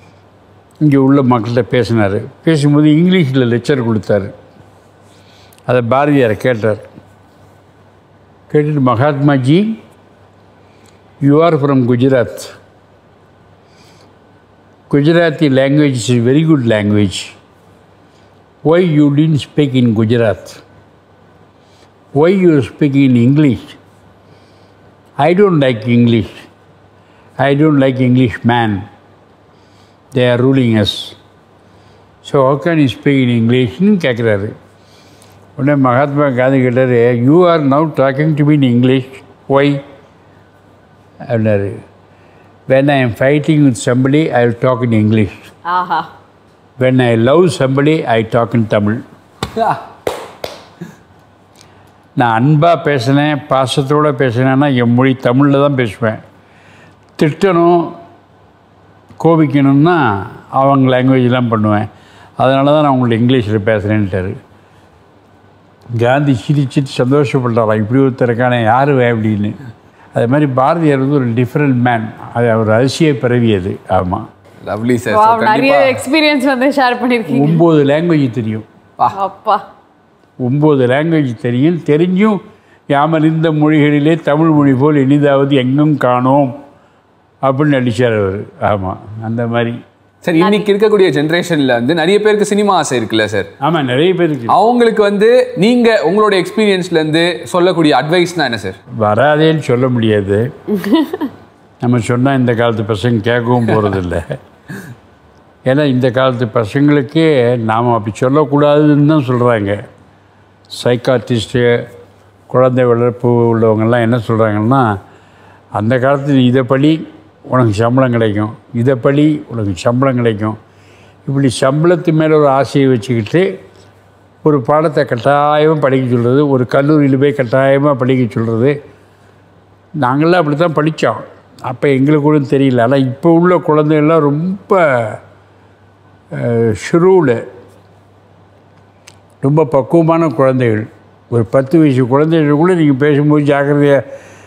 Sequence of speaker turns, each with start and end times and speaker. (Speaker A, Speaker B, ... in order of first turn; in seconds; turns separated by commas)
Speaker A: 0.8-4.3, Speaker A: 5.7-6.8, Speaker A: 8.5-9.8, Speaker A: 11.2-12.5, Speaker A: 14.9-17.3, Speaker A: 18.6-20.6, Speaker A: 22.1-23.8, Speaker A: 25.2-26.4, Speaker A: 27.4-28.8, Speaker A: 30.1-31.1, Speaker A: 32.2-34.5, Speaker A: 35.5-39.8, Speaker A: 41.2-41.8, Speaker A: 42.7-45.5, Speaker B: 45.7-46.1, Speaker A: 46.8-49.0, Speaker A: 52.2-56.2, Speaker A: 57.2-58.0, Speaker A: 59.2-61.9, Speaker A: 62.4-64.4, Speaker A: 66.0-69.5, Speaker A: 70.1-74.3, Speaker C: 74.6-76.0, Speaker B: 75.1-77.6, Speaker A: 77.3-78.7, Speaker B: 79.1-79.6, Speaker A: 80.4-82.4, Speaker A: 82.9-86.5, Speaker A: 87.4-89.8, Speaker C: 90.2-93.5, Speaker B: 90.4-90.7, Speaker A: 93.6-94.6, Speaker C: 94.5-98.8, Speaker A: 99.0-100.5, Speaker B: 100.8-101.1, Speaker A: 101.8-104.4, Speaker A: 105.7-109.8, Speaker A: 110.7-111.8, Speaker A: 112.5-114.9, Speaker A: 115.8-120.6, Speaker A: 121.2-123.5, Speaker A: 124.4-128.8, Speaker A: 130.0-135.2, Speaker A: 136.3-137.4, Speaker A: 139.4-144.0